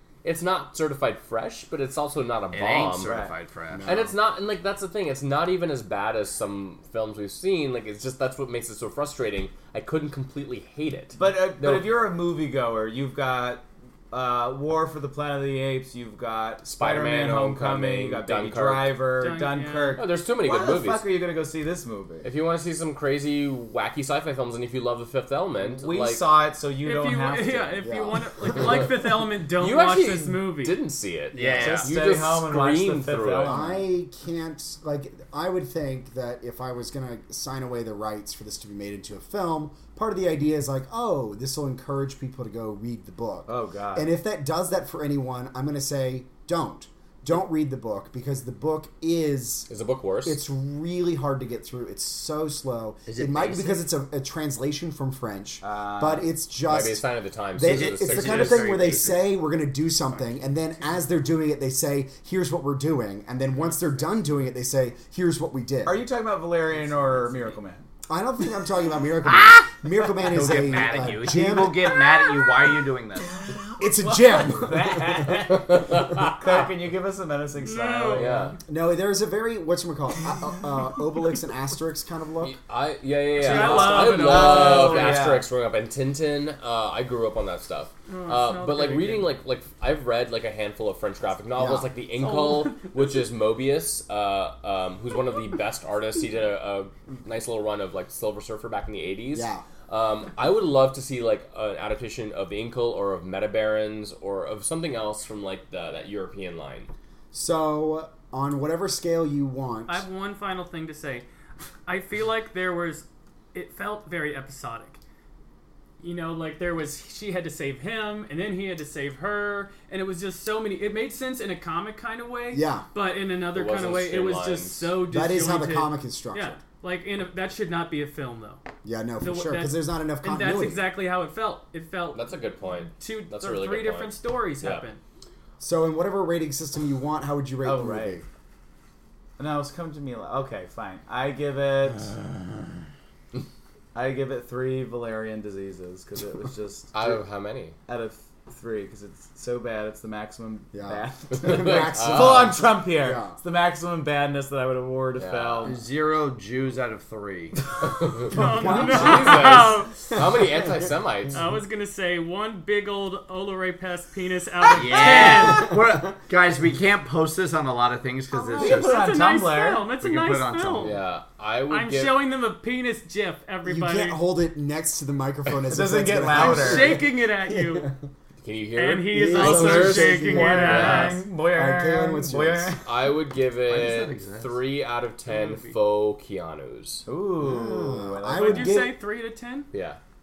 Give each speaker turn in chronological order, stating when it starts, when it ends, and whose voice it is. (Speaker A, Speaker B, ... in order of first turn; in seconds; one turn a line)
Speaker A: 0.2-3.1
Speaker B: 2.5-3.9
Speaker C: 3.0-3.3
Speaker D: 3.7-4.1
Speaker A: 3.9-11.9
Speaker C: 11.2-22.3
Speaker A: 16.6-19.1
Speaker E: 19.2-20.0
Speaker A: 20.0-21.0
Speaker A: 22.2-26.3
Speaker C: 25.6-27.9
Speaker E: 26.8-30.8
Speaker D: 27.8-28.6
Speaker A: 29.5-33.6
Speaker B: 31.4-31.9
Speaker C: 31.4-33.9
Speaker D: 33.4-49.7
Speaker C: 43.5-44.1
Speaker A: 49.7-50.4
Speaker D: 50.2-57.0
Speaker B: 53.1-53.9
Speaker C: 55.6-56.3
Speaker A: 56.6-58.8
Speaker D: 57.5-66.0
Speaker B: 57.6-59.3
Speaker C: 65.8-67.9
Speaker D: 68.1-71.9
Speaker B: 69.2-73.4
Speaker C: 71.3-72.0
Speaker C: 73.2-78.5
Speaker D: 73.8-75.4
Speaker A: 75.5-76.7
Speaker E: 77.6-78.3
Speaker A: 78.2-78.6
Speaker D: 78.7-82.6
Speaker A: 82.4-106.9
Speaker E: 83.4-85.2
Speaker C: 83.5-85.5
Speaker D: 83.6-84.0
Speaker E: 88.1-89.3
Speaker D: 91.6-91.9
Speaker E: 92.2-93.0
Speaker D: 99.3-99.6
Speaker D: 107.3-110.0
Speaker E: 109.9-111.2
Speaker E: 111.9-115.0
Speaker E: 116.0-128.6
Speaker D: 122.5-122.9
Speaker A: 123.5-124.9
Speaker D: 125.1-126.6
Speaker D: 128.8-130.9
Speaker E: 129.2-132.3
Speaker A: 132.1-134.9
Speaker E: 133.0-135.0
Speaker D: 135.6-138.2
Speaker C: 137.6-138.2
Speaker C: 139.4-142.1
Speaker C: 143.9-147.2
Speaker A: 146.9-147.8
Speaker C: 147.9-155.8
Speaker D: 150.7-153.4
Speaker A: 151.4-152.5
Speaker A: 155.2-155.7
Speaker B: 155.7-157.6
Speaker A: 157.8-161.4
Speaker E: 158.3-159.9
Speaker D: 158.3-160.2
Speaker E: 161.3-165.7
Speaker B: 164.7-169.1
Speaker D: 165.2-166.1
Speaker E: 168.3-171.0
Speaker C: 168.6-169.9
Speaker B: 169.9-171.0
Speaker A: 170.8-172.2
Speaker E: 171.7-174.2
Speaker D: 173.6-178.1
Speaker C: 175.7-177.1
Speaker E: 176.3-177.9
Speaker A: 178.4-181.2
Speaker E: 178.8-181.2
Speaker D: 179.1-182.7
Speaker C: 179.4-182.9
Speaker A: 182.8-187.1
Speaker B: 183.7-184.6
Speaker E: 185.3-185.8
Speaker C: 187.1-188.8
Speaker D: 187.4-189.0
Speaker E: 188.3-189.7
Speaker A: 189.7-190.0